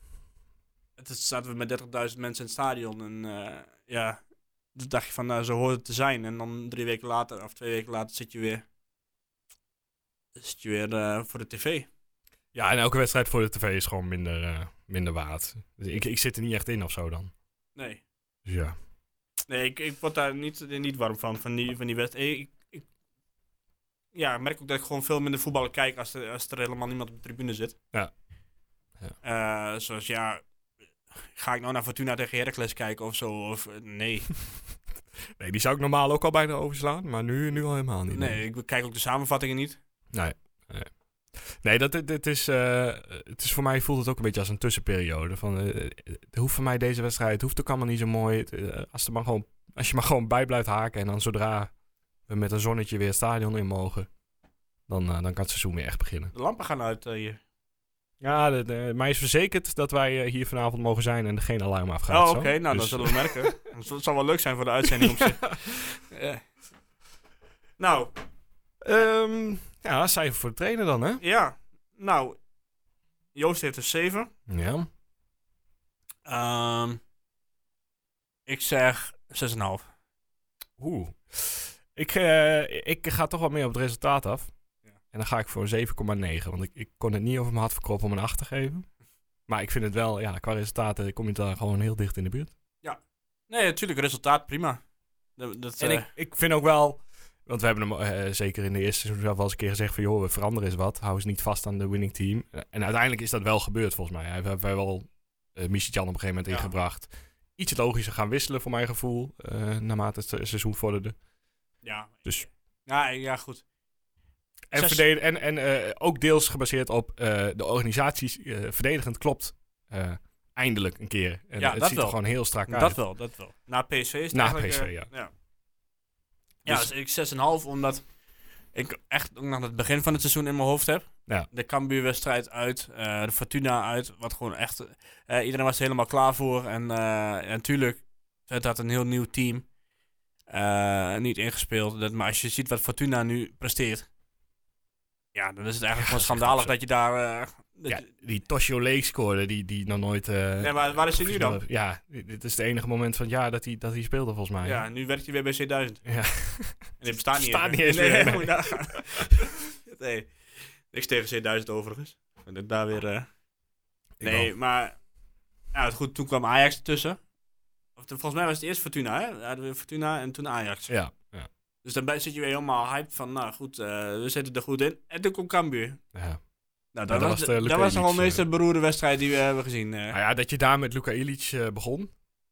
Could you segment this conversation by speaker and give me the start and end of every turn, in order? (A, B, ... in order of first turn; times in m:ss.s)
0:01.0-0:04.2 A
0:04.7-0:08.6 A
0:10.4-0:11.9 A
0:12.5-0:17.3 B
0:17.8-0:18.0 A
0:18.5-0:18.8 B
0:19.5-0:22.9 A
0:24.1-0:27.8 A
0:29.2-0:30.4 A
0:31.2-0:34.3 A
0:35.4-0:38.4 B
0:38.1-0:39.8 A
0:40.1-0:51.7 B
0:52.3-0:54.1 B
0:54.9-0:56.3 B
0:56.3-0:57.4 A
0:58.2-1:03.6 B
1:02.1-1:06.4 A
1:04.9-1:05.6 B
1:07.8-1:08.1 A
1:08.8-1:11.2 B
1:11.2-1:12.4 A
1:13.4-1:14.3 A
1:14.5-1:14.9 B
1:16.3-1:17.0 A
1:18.5-1:19.8 A
1:20.8-1:24.5 B
1:25.1-1:28.8 B
1:29.5-1:32.5 B
1:32.8-1:34.8 A
1:35.4-1:36.1 A
1:35.8-1:51.2 B
1:51.8-1:53.6 A
1:54.7-2:03.0 B
1:54.7-1:55.0 A
2:01.6-2:05.3 A
2:04.3-2:05.1 B
2:06.6-2:08.0 A
2:08.7-2:19.7 A
2:20.5-2:24.1 A
2:25.4-2:28.0 A
2:26.0-2:26.7 B
2:27.9-2:34.8 B
2:30.6-2:31.6 A
2:34.6-2:36.0 A
2:36.0-2:39.0 B
2:37.0-2:43.3 A
2:44.2-2:44.5 B
2:44.2-2:45.0 A
2:45.7-2:47.2 A
2:48.0-2:50.9 A
2:50.9-2:51.5 B
2:51.8-2:56.0 A
2:56.1-2:56.4 B
2:56.9-3:00.2 A
2:57.1-2:58.4 B
3:00.1-3:02.1 B